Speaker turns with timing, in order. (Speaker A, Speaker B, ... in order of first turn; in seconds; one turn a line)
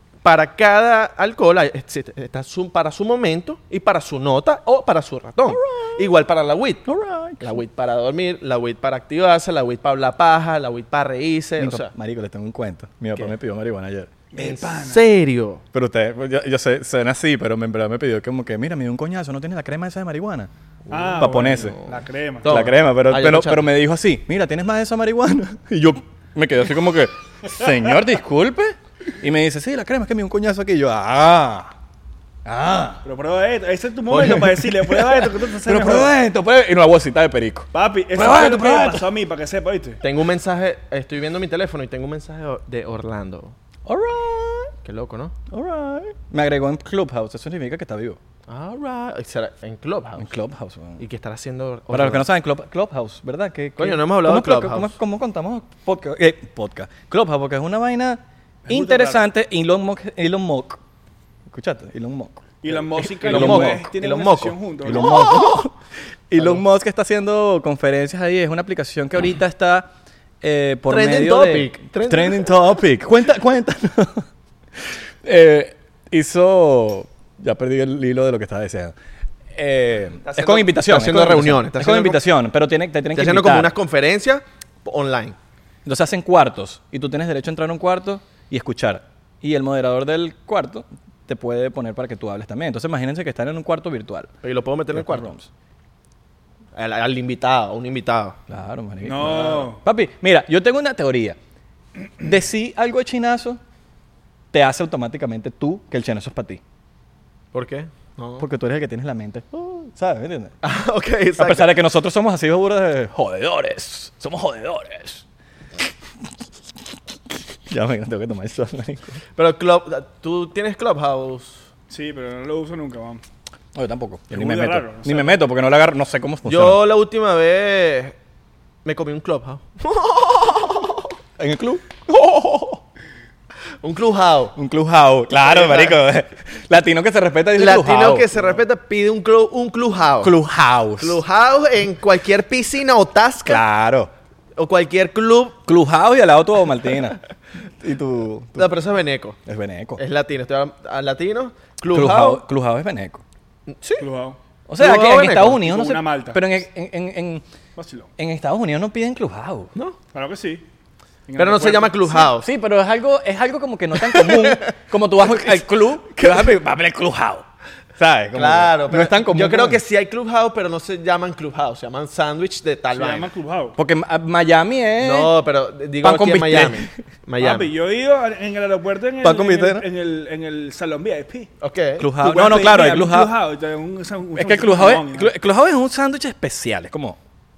Speaker A: 0.2-6.9
Speaker B: 5.5-6.0
Speaker B: 6.9-7.5
Speaker A: 7.4-11.9
Speaker B: 11.6-14.1
Speaker C: 14.3-15.1
Speaker A: 14.4-15.6
Speaker B: 15.7-21.8
Speaker C: 20.9-22.5
Speaker A: 21.4-23.7
Speaker B: 22.5-31.8
Speaker B: 32.5-33.0
Speaker C: 33.0-36.1
Speaker B: 34.1-39.0
Speaker C: 37.7-40.0
Speaker A: 40.0-43.5
Speaker B: 43.9-44.7
Speaker A: 44.8-45.3
Speaker B: 45.5-48.2
Speaker A: 48.5-50.3
Speaker B: 50.2-51.0
Speaker A: 51.0-52.3
Speaker B: 51.9-60.8
Speaker A: 53.8-54.9
Speaker C: 58.7-59.2
Speaker B: 61.5-63.9
Speaker C: 62.6-65.2
Speaker A: 63.2-65.7
Speaker B: 64.8-65.7
Speaker B: 66.3-74.2
Speaker A: 70.9-72.5
Speaker B: 75.2-79.0
Speaker B: 79.5-83.7
Speaker A: 80.2-82.2
Speaker A: 83.2-85.4
Speaker B: 85.8-94.3
Speaker A: 94.4-95.3
Speaker B: 94.9-95.5
Speaker A: 96.8-98.4
Speaker B: 98.5-101.4
Speaker C: 99.0-99.8
Speaker B: 102.2-103.6
Speaker B: 104.5-106.6
Speaker A: 107.5-108.5
Speaker B: 108.4-110.5
Speaker A: 110.6-111.7
Speaker B: 111.4-115.2
Speaker B: 117.7-119.2
Speaker A: 119.4-121.6
Speaker C: 121.9-123.2
Speaker B: 123.7-126.8
Speaker C: 124.3-125.4
Speaker A: 126.5-128.2
Speaker A: 128.8-131.1
Speaker B: 131.4-132.8
Speaker A: 133.8-134.6
Speaker B: 134.6-138.4
Speaker A: 135.4-136.0
Speaker A: 137.6-140.4
Speaker B: 140.2-141.2
Speaker A: 141.0-143.6
Speaker B: 143.4-144.1
Speaker A: 144.6-145.6
Speaker B: 145.7-147.2
Speaker B: 147.8-148.7
Speaker A: 148.6-149.4
Speaker B: 149.5-150.0
Speaker A: 150.0-152.4
Speaker B: 151.9-153.2
Speaker A: 153.7-154.1
Speaker C: 154.0-154.4
Speaker B: 154.7-157.4
Speaker A: 154.8-155.6
Speaker C: 155.6-156.5
Speaker C: 157.8-158.1
Speaker B: 158.2-159.7
Speaker C: 160.1-160.7
Speaker C: 161.3-162.3
Speaker A: 161.4-162.5
Speaker B: 162.3-167.4
Speaker A: 164.0-164.6
Speaker B: 168.0-169.8
Speaker A: 168.3-173.3
Speaker C: 172.9-173.8
Speaker B: 173.8-175.3
Speaker A: 175.0-177.7
Speaker B: 176.0-176.9
Speaker C: 177.4-181.5
Speaker B: 179.2-179.8
Speaker A: 181.6-182.1
Speaker B: 182.0-183.3
Speaker C: 182.2-185.3
Speaker B: 184.4-187.2